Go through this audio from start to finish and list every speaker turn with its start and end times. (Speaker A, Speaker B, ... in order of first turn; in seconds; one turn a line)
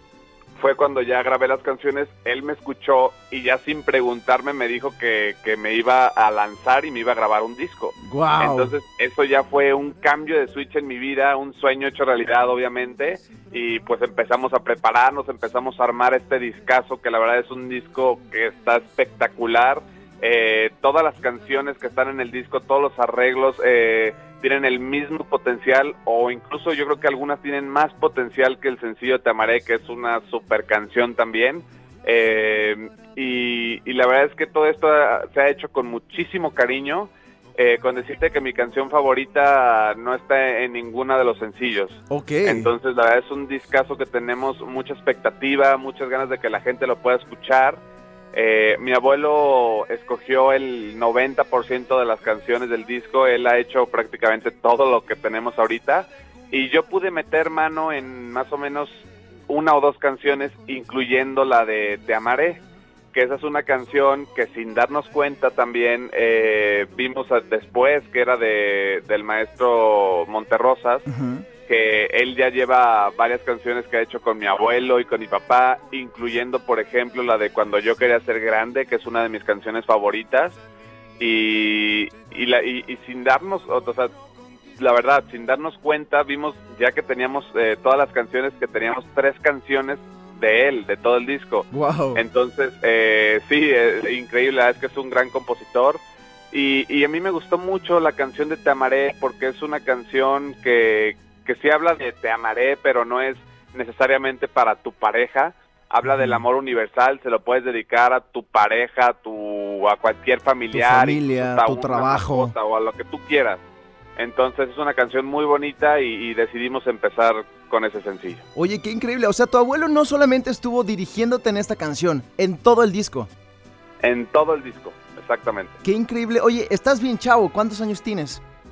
Speaker A: 0.6-47.8
Speaker B: 8.0-8.7
Speaker B: 42.1-42.7
Speaker A: 48.3-71.1
Speaker B: 71.1-71.4
Speaker A: 71.7-80.6
Speaker A: 81.2-84.1
Speaker A: 84.8-113.6
Speaker B: 91.7-92.2
Speaker B: 106.1-106.4
Speaker B: 110.7-112.5
Speaker A: 114.2-118.4
Speaker B: 118.5-123.3
Speaker A: 124.0-125.8
Speaker B: 125.8-128.4